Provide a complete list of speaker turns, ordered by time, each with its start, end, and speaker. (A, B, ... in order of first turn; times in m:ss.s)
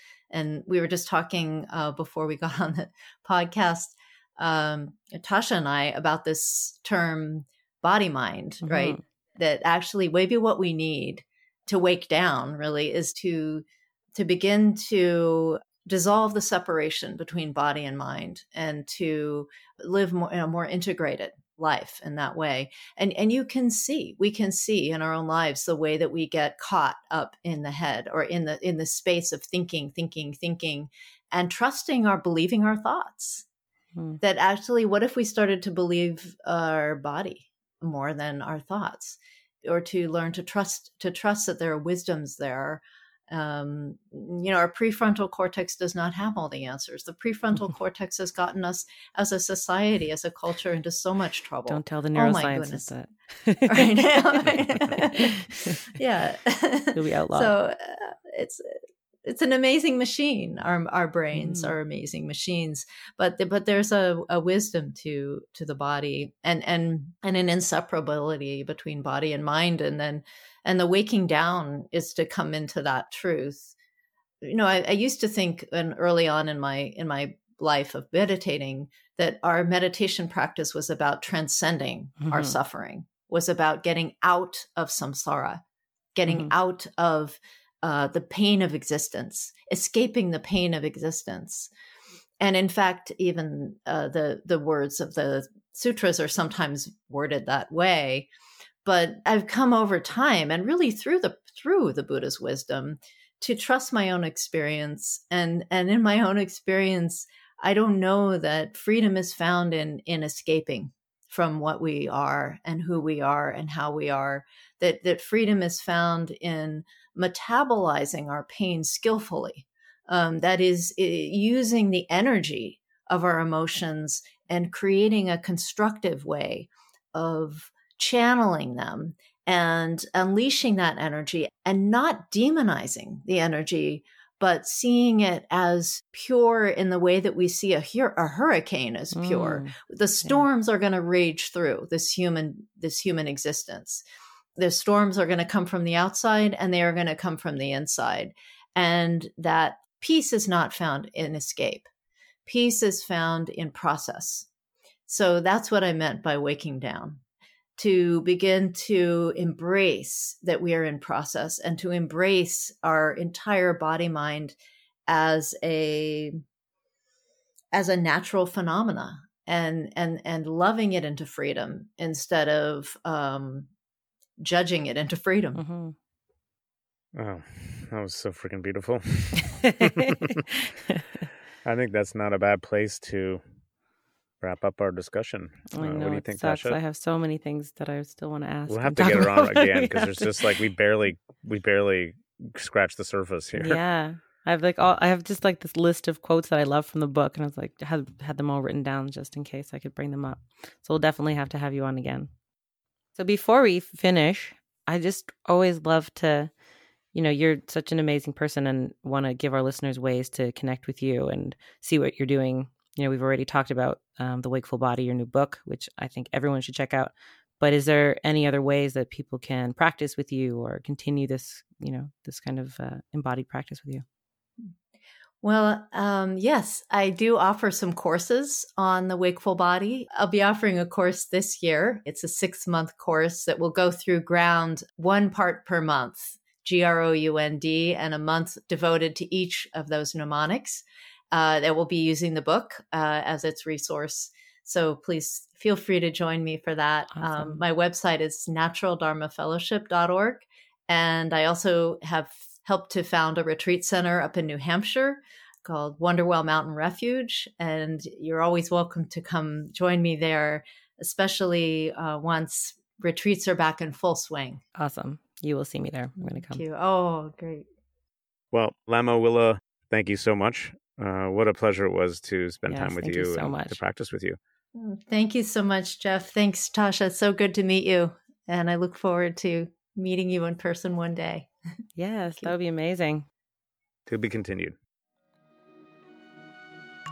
0:00.3-0:33.4 A
0:08.6-0:09.0 B
0:34.2-0:52.9 A
0:51.7-0:54.4 B
0:53.7-1:13.7 A
0:55.1-0:55.8 B
0:56.9-0:57.5 B
1:01.3-1:01.7 B
1:14.4-1:25.6 A
1:22.2-1:22.6 B
1:26.2-1:31.7 A
1:32.4-1:38.3 A
1:38.8-2:24.0 A
2:19.1-2:19.7 B
2:24.6-2:31.9 A
2:32.4-2:34.4 A
2:35.1-2:37.2 A
2:37.8-2:44.6 A
2:45.1-2:46.4 A
2:47.7-2:53.7 A
2:54.4-2:55.6 A
2:55.6-2:55.9 B
2:57.1-3:00.2 C
2:59.4-3:01.3 B
3:01.6-3:03.4 C
3:04.4-3:06.8 C
3:05.7-3:10.6 B
3:08.7-3:13.8 C
3:13.6-3:22.3 B
3:23.2-3:26.5 B
3:27.1-3:44.0 B
3:45.4-4:24.6 A
4:07.1-4:07.6 B
4:24.8-4:26.6 B
4:26.2-4:27.6 A
4:28.5-4:34.4 C
4:32.7-4:33.8 B
4:34.7-4:41.5 A
4:42.0-4:43.2 B
4:44.1-4:44.8 C